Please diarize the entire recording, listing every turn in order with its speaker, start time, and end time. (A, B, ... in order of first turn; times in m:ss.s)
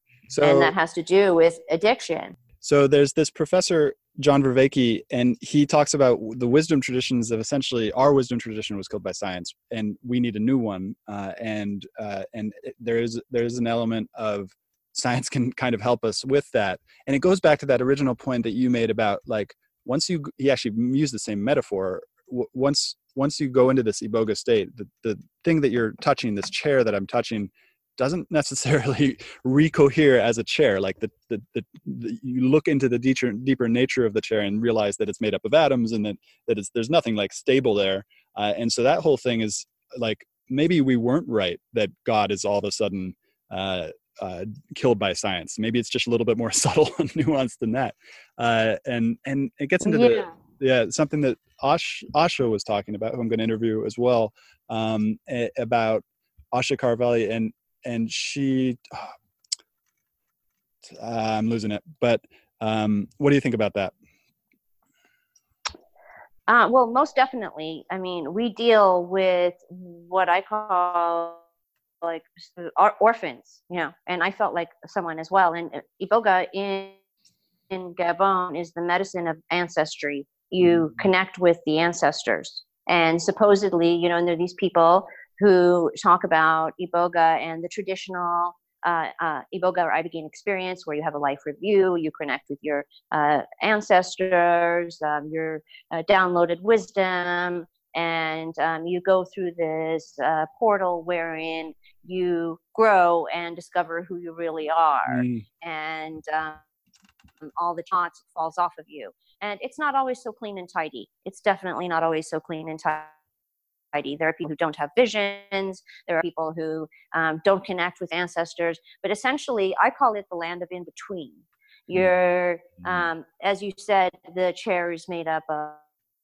0:00.3-0:00.7 A
0:00.4-0:02.4 B
0:02.6-0:59.1 A
0:49.8-0:50.3 B
1:00.8-1:03.9 A
1:06.5-1:11.4 B
1:12.0-1:17.0 B
1:17.7-1:46.6 B
1:45.1-1:45.4 A
1:47.4-1:53.1 B
1:53.9-2:05.8 B